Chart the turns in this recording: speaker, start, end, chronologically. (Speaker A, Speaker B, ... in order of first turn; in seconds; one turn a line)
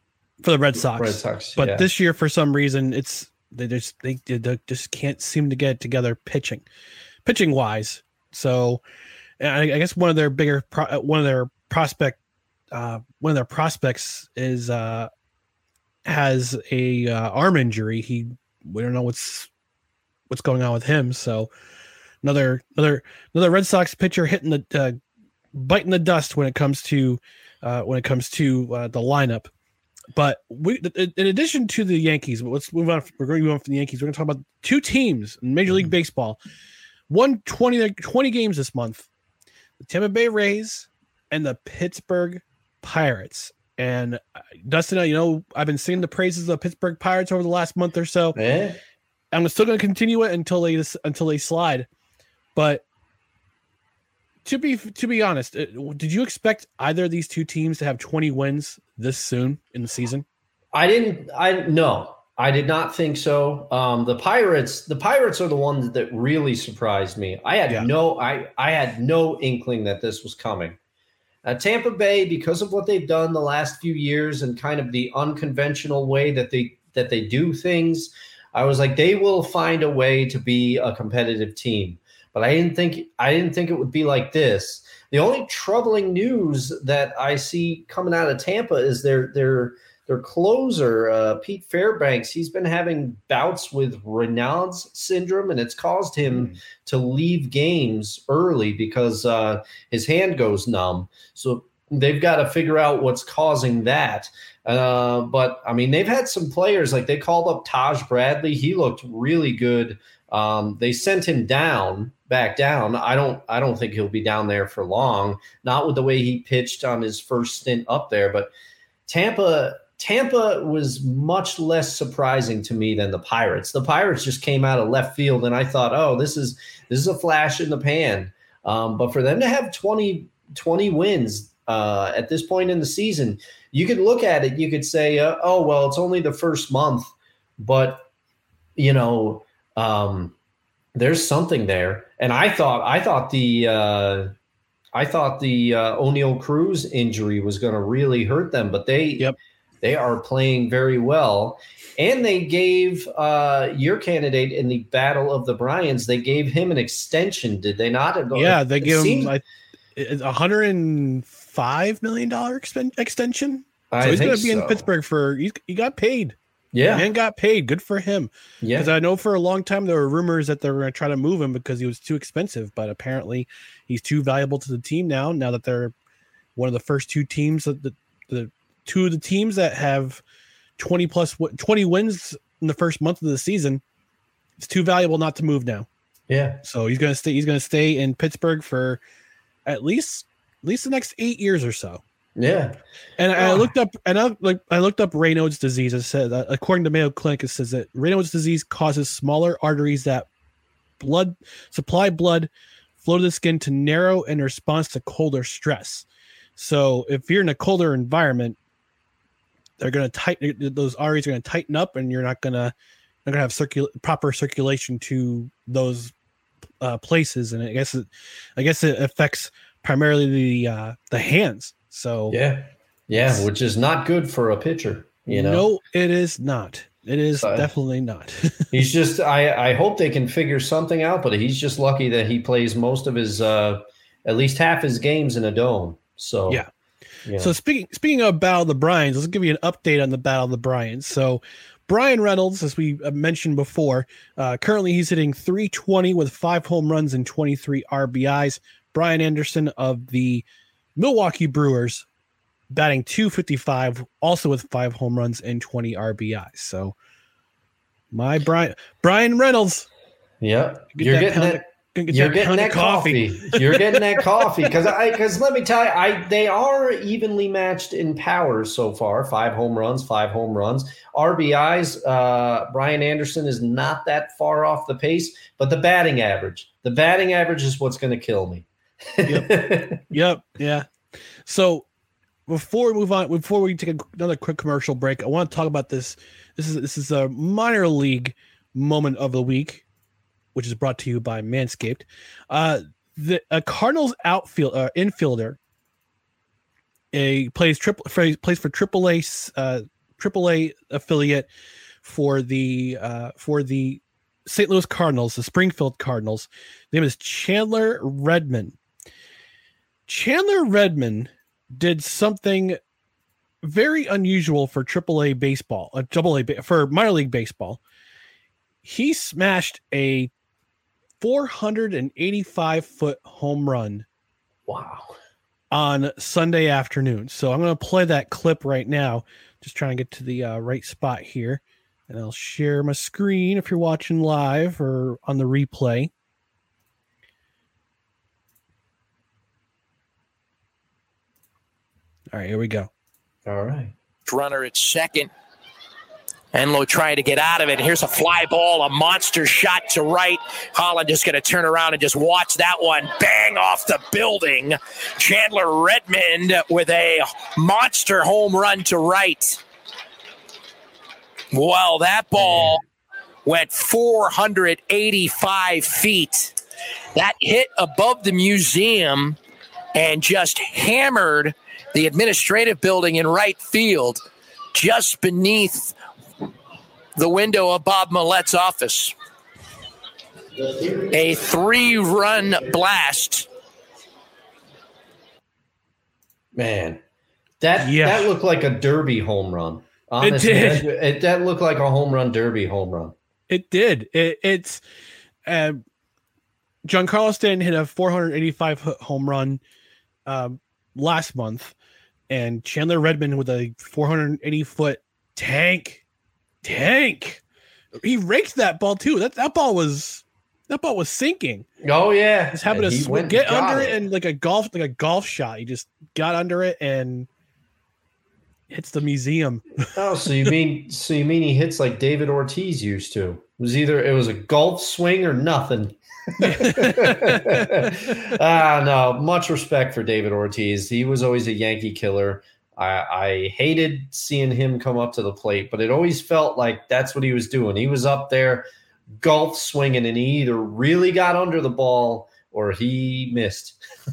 Speaker A: 0.4-6.7
Speaker B: 0.7-1.9
Speaker A: 7.2-8.8
Speaker A: 9.4-12.2
Speaker A: 12.7-15.1
Speaker A: 16.1-19.5
Speaker A: 20.3-21.5
Speaker A: 22.2-25.0
Speaker A: 25.5-29.5
Speaker A: 30.1-36.4
Speaker A: 37.1-39.1
Speaker A: 39.8-48.4
Speaker B: 48.4-48.8
Speaker A: 49.3-51.9
Speaker A: 52.5-52.8
Speaker A: 54.5-60.2
Speaker B: 60.7-70.8
Speaker B: 71.4-118.5
Speaker A: 96.3-96.6
Speaker B: 119.1-138.1
Speaker B: 138.8-140.3
Speaker B: 140.9-144.3
Speaker B: 144.9-159.3
Speaker A: 158.3-159.4
Speaker A: 159.9-166.4
Speaker B: 163.9-164.8
Speaker B: 166.7-167.1
Speaker A: 166.9-175.9
Speaker B: 168.6-168.9
Speaker A: 176.6-180.2
Speaker A: 180.8-183.8
Speaker A: 184.6-185.9
Speaker B: 186.3-186.6
Speaker A: 186.6-189.0
Speaker A: 189.7-192.0
Speaker B: 192.4-192.8
Speaker A: 193.2-200.3
Speaker B: 193.4-193.7
Speaker A: 201.0-206.1
Speaker A: 206.6-208.6
Speaker A: 209.8-212.7
Speaker A: 213.2-216.1
Speaker A: 216.8-218.1
Speaker A: 218.6-222.4
Speaker B: 222.3-225.7
Speaker A: 223.2-223.4
Speaker A: 225.3-228.7
Speaker B: 227.4-227.7
Speaker B: 228.7-236.6
Speaker B: 237.3-237.6
Speaker A: 237.4-252.1
Speaker A: 252.7-256.9
Speaker A: 258.1-259.9
Speaker B: 260.4-280.0
Speaker A: 260.9-264.2
Speaker A: 279.3-280.9
Speaker A: 281.4-281.9
Speaker A: 282.5-289.8
Speaker A: 290.6-295.6
Speaker A: 297.1-301.5
Speaker A: 302.0-308.8
Speaker A: 310.1-312.8
Speaker A: 313.6-317.8
Speaker A: 318.8-320.3
Speaker A: 321.2-324.1
Speaker B: 324.7-325.2
Speaker A: 325.7-336.1
Speaker A: 342.3-342.9
Speaker B: 343.5-343.9
Speaker C: 344.3-345.3
Speaker C: 346.5-359.6
Speaker C: 361.5-362.8
Speaker C: 363.4-366.6
Speaker C: 367.1-369.4
Speaker C: 369.9-374.2
Speaker C: 374.7-375.9
Speaker C: 377.2-379.1
Speaker C: 380.9-383.5
Speaker B: 386.5-387.0
Speaker B: 387.6-393.1
Speaker A: 387.8-388.3
Speaker A: 390.2-390.9
Speaker A: 393.5-394.8
Speaker A: 395.5-395.8
Speaker A: 396.9-399.6
Speaker A: 400.3-401.8
Speaker A: 402.3-406.0
Speaker A: 406.6-407.4
Speaker A: 408.0-411.7
Speaker B: 411.8-414.0
Speaker A: 412.5-417.3
Speaker A: 418.7-419.9
Speaker B: 420.0-443.8
Speaker A: 426.4-427.9